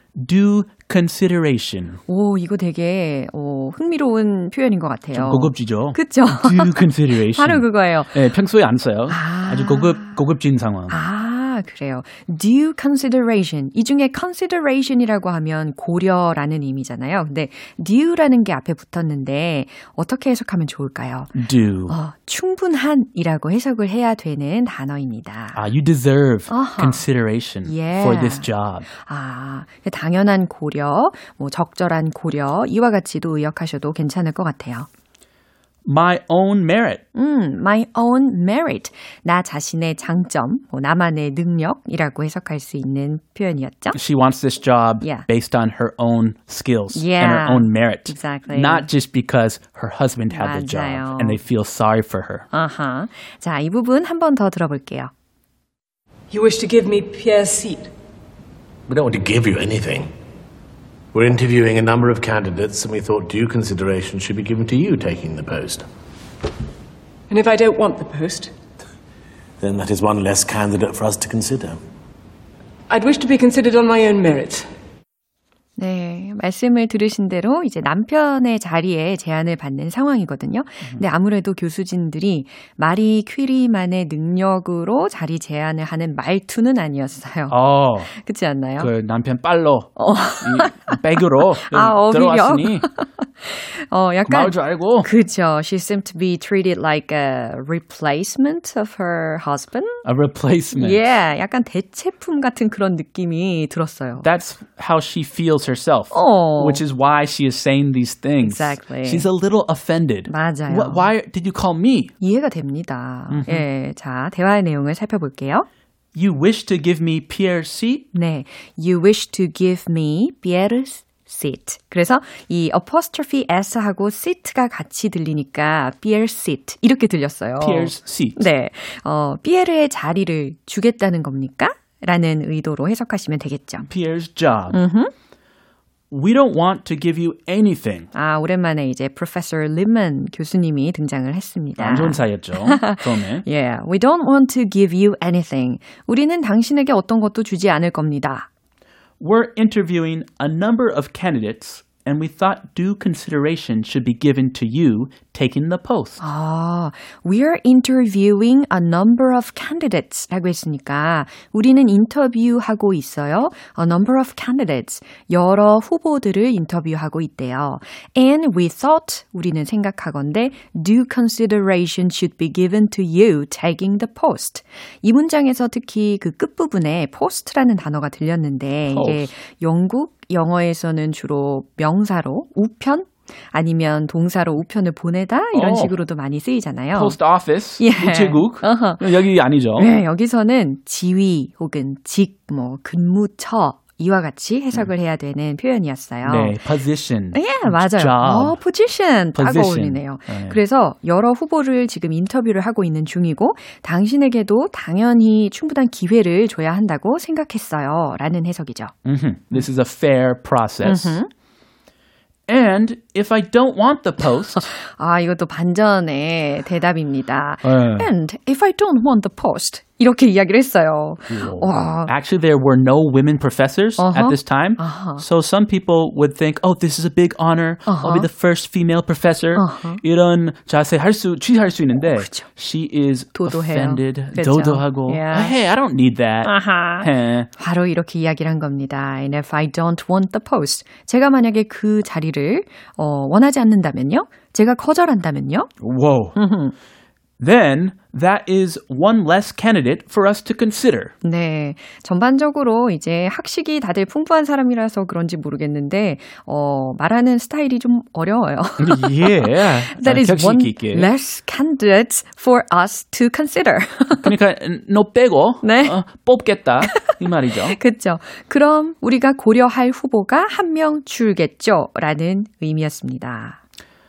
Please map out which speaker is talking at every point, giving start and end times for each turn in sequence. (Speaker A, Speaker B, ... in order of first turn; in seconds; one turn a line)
Speaker A: 0.1-2.0
Speaker B: 2.1-8.2
Speaker A: 5.1-11.0
Speaker B: 9.1-10.2
Speaker B: 10.9-21.3
Speaker A: 21.3-22.0
Speaker B: 21.9-25.6
Speaker A: 25.5-28.9
Speaker B: 26.5-27.1
Speaker B: 27.6-34.9
Speaker A: 35.9-37.0
Speaker B: 37.1-44.0
Speaker A: 43.9-52.5
Speaker B: 45.0-45.3
Speaker B: 46.9-48.9
Speaker B: 50.3-51.4
Speaker B: 52.5-55.1
Speaker C: 56.3-57.9
Speaker D: 58.9-60.1
Speaker D: 61.1-65.9
Speaker C: 67.3-68.5
Speaker D: 69.6-71.8
Speaker C: 72.9-74.7
Speaker B: 75.8-87.5
Speaker A: 87.5-88.1
Speaker B: 88.1-88.9
Speaker A: 88.8-92.9
Speaker B: 90.0-91.0
Speaker B: 91.6-100.0
Speaker A: 94.3-95.1
Speaker A: 100.0-101.1
Speaker B: 100.7-104.3
Speaker A: 104.2-112.1
Speaker B: 106.1-106.8
Speaker B: 108.4-109.3
Speaker B: 110.3-111.1
Speaker B: 112.2-115.7
Speaker A: 113.3-113.7
Speaker A: 116.2-118.1
Speaker B: 118.1-133.9
Speaker A: 127.6-128.4
Speaker A: 133.8-134.8
Speaker B: 134.7-135.1
Speaker A: 136.1-138.1
Speaker B: 138.1-148.5
Speaker A: 141.8-143.4
Speaker A: 149.2-156.2
Speaker B: 156.2-187.2
Speaker A: 178.9-179.3
Speaker A: 185.5-186.0
Speaker A: 186.9-189.9
Speaker B: 187.8-189.0
Speaker B: 189.8-196.6
Speaker A: 196.2-198.6
Speaker B: 197.3-208.9
Speaker A: 199.3-200.6
Speaker A: 209.1-211.2
Speaker B: 210.8-211.3
Speaker A: 212.5-214.7
Speaker B: 214.6-222.1
Speaker A: 217.6-218.1
Speaker A: 221.3-237.5
Speaker B: 224.0-225.2
Speaker B: 227.9-228.3
Speaker B: 229.6-230.0
Speaker B: 232.0-232.5
Speaker B: 233.3-235.6
Speaker B: 236.4-245.7
Speaker A: 245.8-246.4
Speaker B: 246.4-246.7
Speaker A: 247.4-251.1
Speaker B: 251.2-264.3
Speaker A: 258.8-261.1
Speaker A: 264.2-267.8
Speaker B: 265.6-266.0
Speaker B: 267.7-273.6